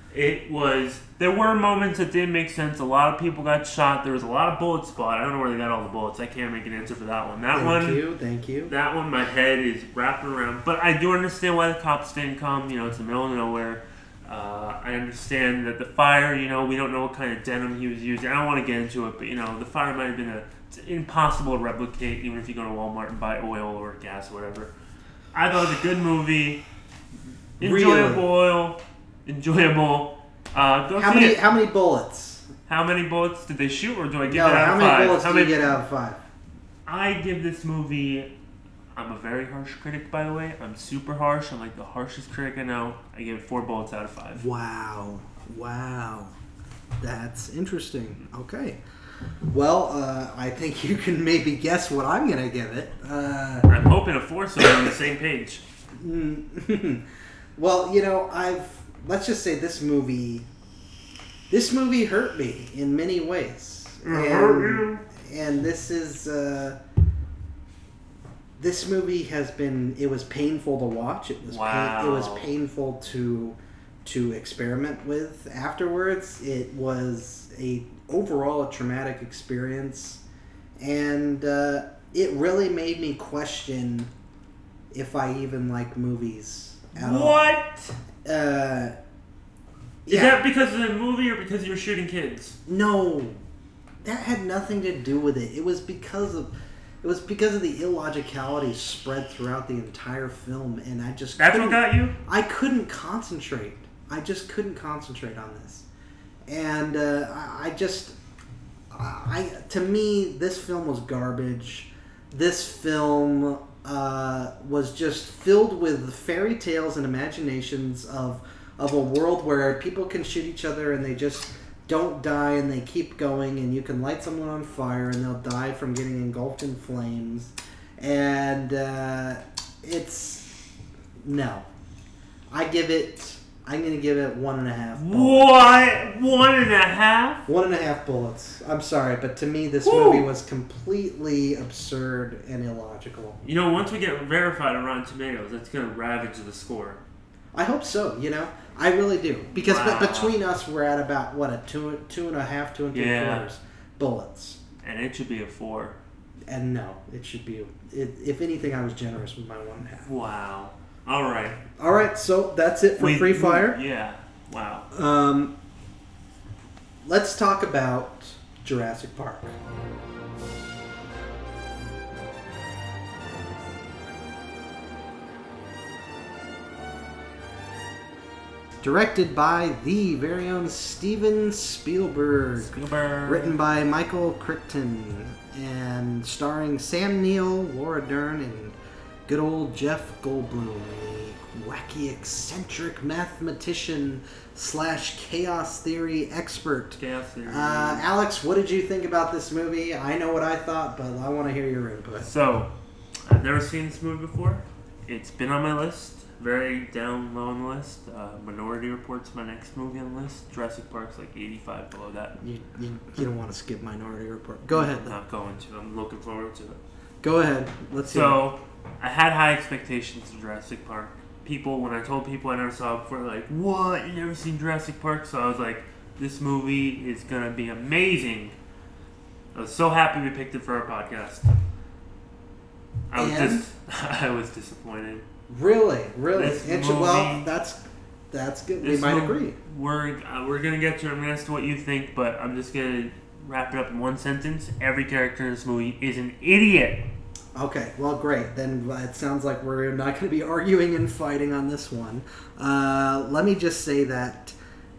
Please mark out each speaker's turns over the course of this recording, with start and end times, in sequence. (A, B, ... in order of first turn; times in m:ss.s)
0:00.1-0:08.0 A
0:07.5-0:08.7 B
0:08.7-0:24.7 A
0:25.3-0:26.6 A
0:27.6-0:28.3 B
0:27.6-0:31.4 A
0:31.0-0:32.5 B
0:32.7-0:35.6 A
0:34.3-0:36.2 B
0:36.9-0:38.3 A
0:39.0-0:44.4 A
0:44.4-0:46.3 B
0:47.0-0:48.8 B
0:49.5-0:53.7 B
0:53.7-0:55.6 A
0:54.6-0:54.9 B
0:56.0-0:57.0 B
0:57.6-1:00.5 B
1:01.5-1:06.8 B
1:04.0-1:05.0 A
1:08.6-1:20.2 B
1:11.5-1:12.5 A
1:20.8-1:24.1 B
1:24.9-1:27.5 B
1:27.0-1:28.0 A
1:28.2-1:29.0 B
1:30.1-1:30.4 B
1:30.1-1:32.6 A
1:32.7-1:33.4 B
1:34.0-1:45.9 B
1:41.4-1:42.2 A
1:46.5-1:48.2 B
1:48.9-2:10.5 B
2:11.2-2:11.7 B
2:12.5-2:15.6 B
2:15.0-2:17.4 A
2:17.5-2:23.4 B
2:19.8-2:20.3 A
2:23.4-2:27.0 A
2:27.5-2:34.6 B
2:29.6-2:30.4 A
2:32.9-2:33.5 A
2:34.8-2:36.0 A
2:36.5-2:40.1 B
2:40.1-2:41.6 A
2:41.8-2:43.8 B
2:43.0-2:44.9 A
2:44.9-2:45.6 B
2:47.0-2:49.6 B
2:58.8-3:02.7 B
3:02.6-3:03.6 A
3:03.2-3:22.3 B
3:17.0-3:18.1 A
3:22.2-3:22.7 A
3:23.3-3:32.4 A
3:32.4-3:35.2 B
3:34.7-3:36.8 A
3:37.2-3:38.4 B
3:38.1-3:48.6 A
3:49.5-3:51.5 A
3:53.1-3:55.2 A
3:53.2-3:53.7 B
3:55.5-3:59.6 B
3:56.3-3:57.5 A
3:58.8-4:07.1 A
4:07.6-4:14.6 B